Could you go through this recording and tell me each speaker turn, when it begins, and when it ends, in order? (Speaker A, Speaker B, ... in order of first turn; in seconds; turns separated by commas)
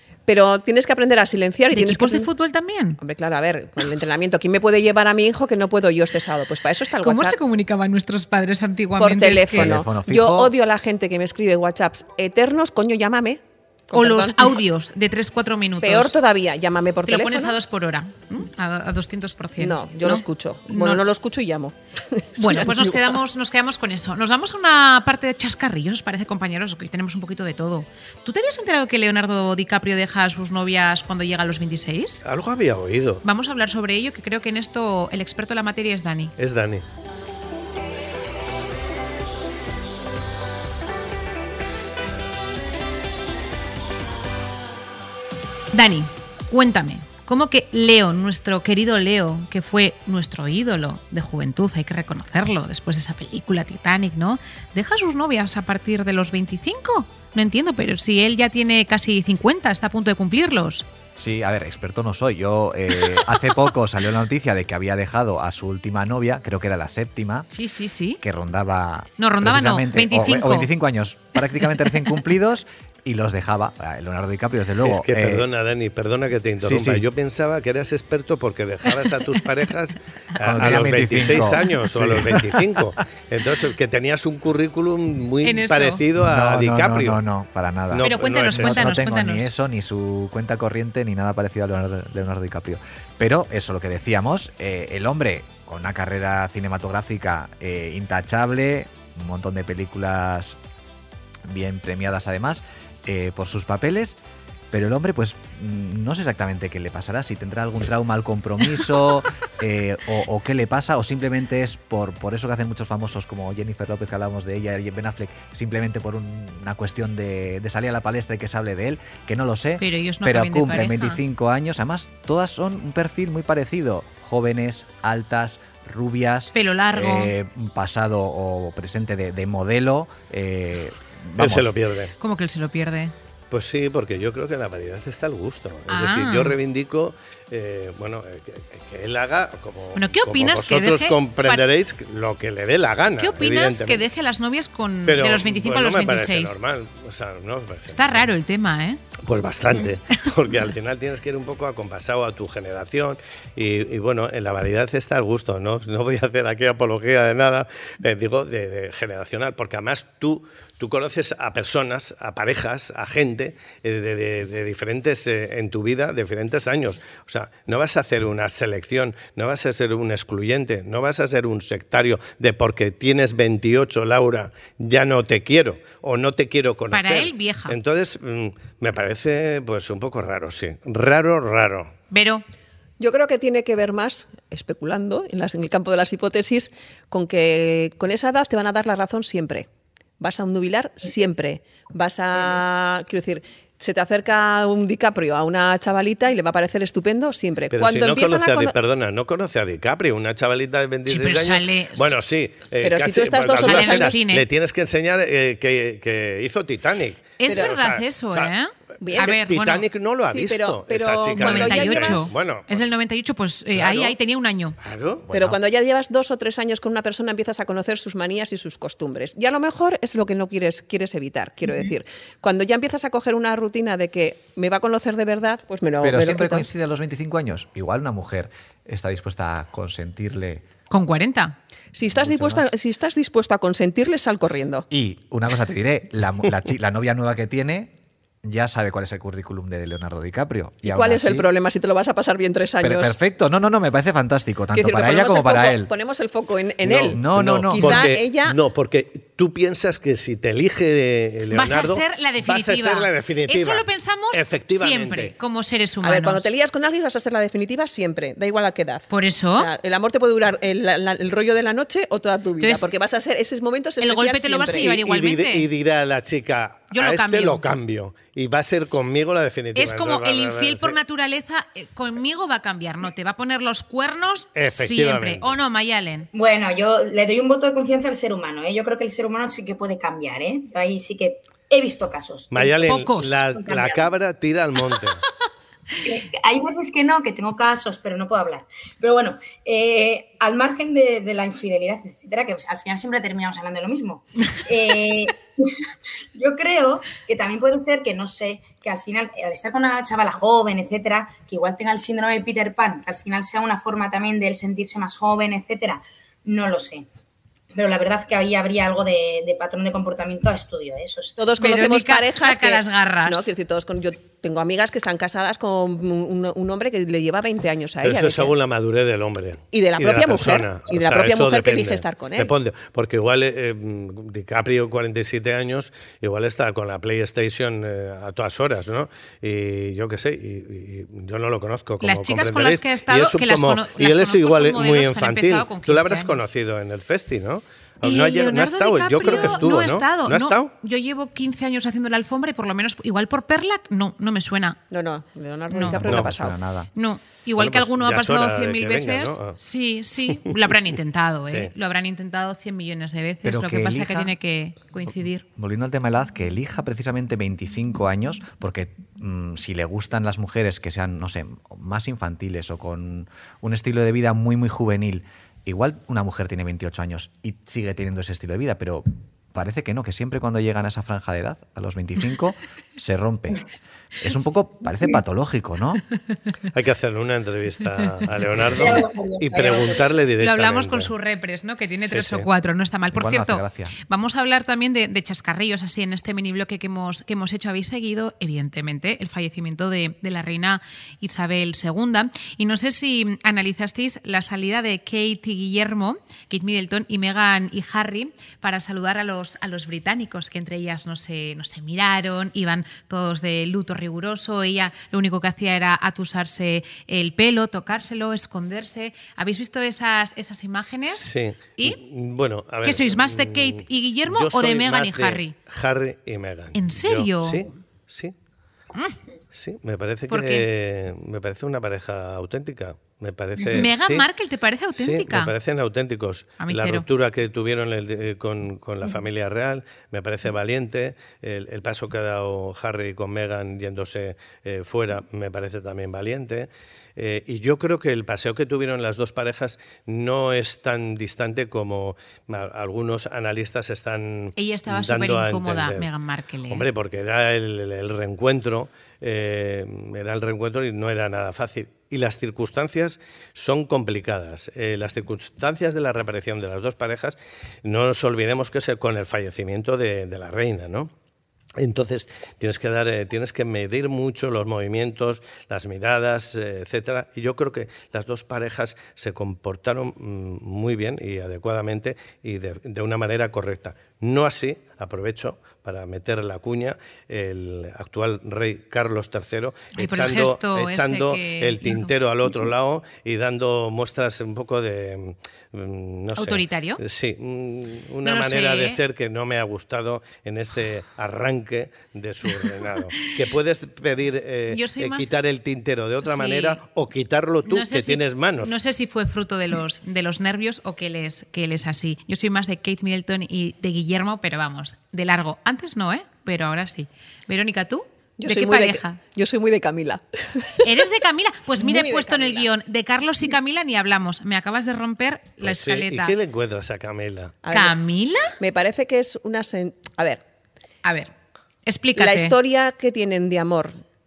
Speaker A: 0.2-2.3, Speaker B: 1.7-3.0, Speaker A: 3.0-7.4, Speaker B: 7.0-9.8, Speaker A: 9.0-14.6, Speaker C: 9.5-10.5, Speaker B: 13.9-16.1, Speaker A: 15.8-17.6, Speaker B: 17.1-21.0, Speaker A: 19.6-23.1, Speaker B: 22.4-32.2, Speaker D: 32.2-33.2, Speaker B: 33.2-36.3, Speaker D: 36.4-36.8, Speaker B: 45.7-60.8, Speaker C: 61.1-67.5, Speaker B: 67.5-68.2, Speaker C: 68.2-75.5, Speaker B: 69.2-70.7, Speaker D: 74.8-87.2, Speaker C: 76.6-77.0, Speaker C: 80.4-82.8, Speaker B: 85.4-86.0, Speaker C: 86.2-100.6, Speaker D: 87.9-88.8, Speaker B: 88.0-89.5, Speaker C: 101.5-104.2, Speaker C: 104.7-131.7, Speaker B: 119.8-121.2, Speaker B: 126.5-127.3, Speaker D: 131.4-132.1, Speaker B: 132.2-133.1, Speaker D: 133.5-144.1, Speaker B: 135.9-136.5, Speaker B: 139.9-141.6, Speaker B: 143.2-146.6, Speaker D: 145.1-148.3, Speaker B: 147.9-149.0, Speaker D: 149.2-181.9, Speaker B: 176.9-177.8, Speaker B: 182.1-182.4, Speaker A: 183.0-189.7, Speaker A: 190.2-198.7, Speaker D: 197.7-208.5, Speaker B: 201.1-202.2, Speaker A: 202.8-204.2, Speaker B: 203.6-204.4, Speaker B: 207.4-209.8, Speaker A: 207.5-207.7, Speaker A: 209.0-209.3, Speaker D: 209.0-212.8, Speaker A: 210.2-212.4, Speaker B: 211.3-214.8, Speaker D: 213.7-214.1, Speaker D: 214.8-215.2, Speaker C: 215.3-215.6, Speaker A: 215.3-226.7, Speaker C: 226.0-230.6, Speaker B: 230.9-231.6, Speaker A: 231.9-234.9, Speaker C: 232.1-232.7, Speaker C: 234.9-241.5, Speaker A: 240.8-243.1, Speaker C: 242.8-245.9, Speaker A: 244.7-248.6, Speaker D: 246.8-255.3, Speaker C: 247.1-248.1, Speaker B: 251.5-256.5, Speaker A: 256.0-264.9, Speaker B: 259.1-259.7, Speaker B: 262.6-262.9, Speaker B: 264.0-265.7, Speaker D: 264.7-271.0, Speaker B: 266.9-267.6, Speaker B: 269.8-276.3, Speaker D: 274.6-275.6, Speaker E: 276.3-283.0, Speaker D: 282.5-285.2, Speaker B: 282.9-283.4, Speaker E: 283.5-284.1, Speaker E: 286.0-295.7, Speaker E: 296.3-307.1, Speaker E: 307.7-311.4, Speaker A: 311.4-318.5, Speaker B: 311.6-313.5, Speaker D: 318.0-340.7, Speaker A: 319.7-322.5, Speaker B: 332.0-336.4, Speaker B: 338.0-344.8, Speaker A: 344.9-346.6, Speaker B: 345.7-346.1, Speaker C: 345.9-346.9, Speaker D: 346.1-346.3, Speaker B: 346.9-355.4, Speaker D: 347.6-349.6, Speaker D: 350.3-350.7, Speaker D: 351.4-351.7, Speaker C: 353.4-354.3, Speaker C: 355.6-376.0, Speaker D: 376.7-381.1, Speaker E: 378.7-380.0, Speaker B: 380.4-412.0, Speaker D: 382.1-382.5, Speaker C: 383.1-383.9, Speaker D: 411.1-418.3, Speaker B: 412.8-415.5, Speaker B: 416.7-417.6, Speaker B: 418.9-419.2, Speaker D: 419.5-424.2, Speaker B: 420.3-420.6, Speaker B: 423.7-425.5, Speaker D: 424.9-446.1, Speaker B: 426.6-427.0, Speaker B: 444.6-446.8, Speaker D: 446.7-461.1, Speaker D: 461.8-498.7, Speaker B: 479.9-482.1, Speaker B: 486.4-487.0, Speaker B: 488.2-489.0, Speaker B: 494.7-495.3, Speaker B: 496.2-496.8, Speaker B: 497.7-509.2, Speaker A: 508.4-510.9, Speaker B: 510.8-516.3, Speaker A: 511.8-512.7, Speaker D: 515.6-517.5, Speaker A: 517.6-518.0, Speaker B: 517.7-518.5, Speaker A: 518.6-520.4, Speaker B: 521.0-521.3, Speaker B: 521.9-522.5, Speaker A: 522.1-524.0